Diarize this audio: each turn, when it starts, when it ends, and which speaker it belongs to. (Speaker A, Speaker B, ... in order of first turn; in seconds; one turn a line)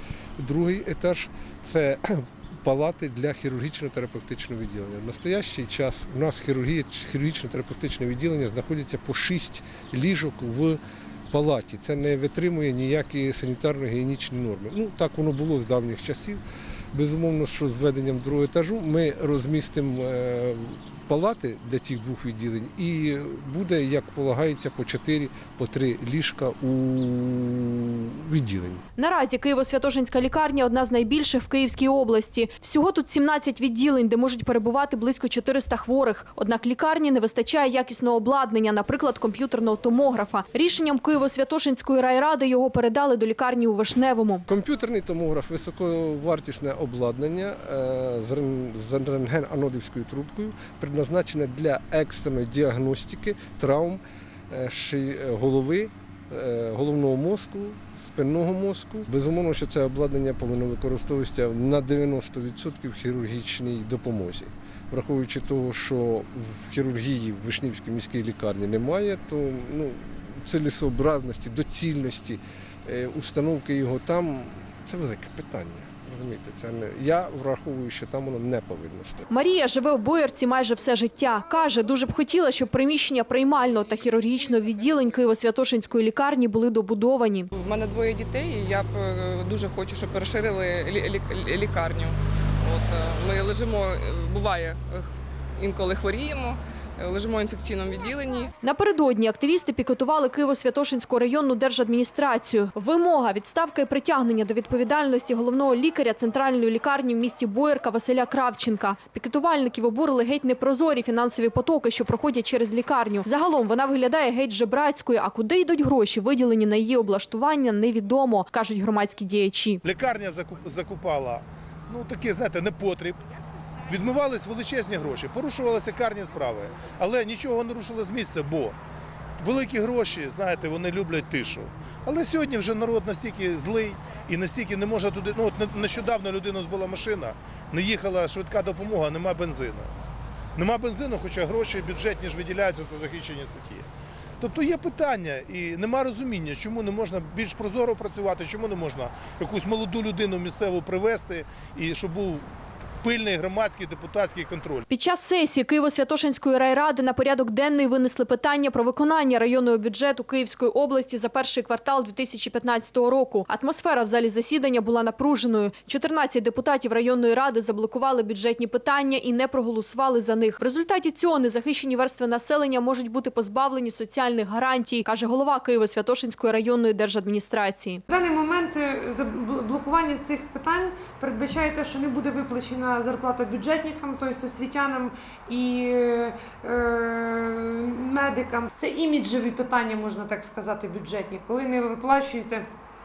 Speaker A: 0.4-16.4
Speaker A: 16.9-28.8
Speaker B: 29.0-44.5
Speaker A: 44.5-79.2
Speaker B: 79.3-87.5
Speaker C: 87.5-98.5
Speaker B: 98.6-119.8
Speaker D: 119.8-123.2
Speaker D: 123.9-128.8
Speaker D: 129.4-139.9
Speaker D: 140.6-143.9
Speaker D: 144.4-152.4
Speaker D: 153.0-154.8
Speaker B: 154.9-178.0
Speaker E: 178.1-192.7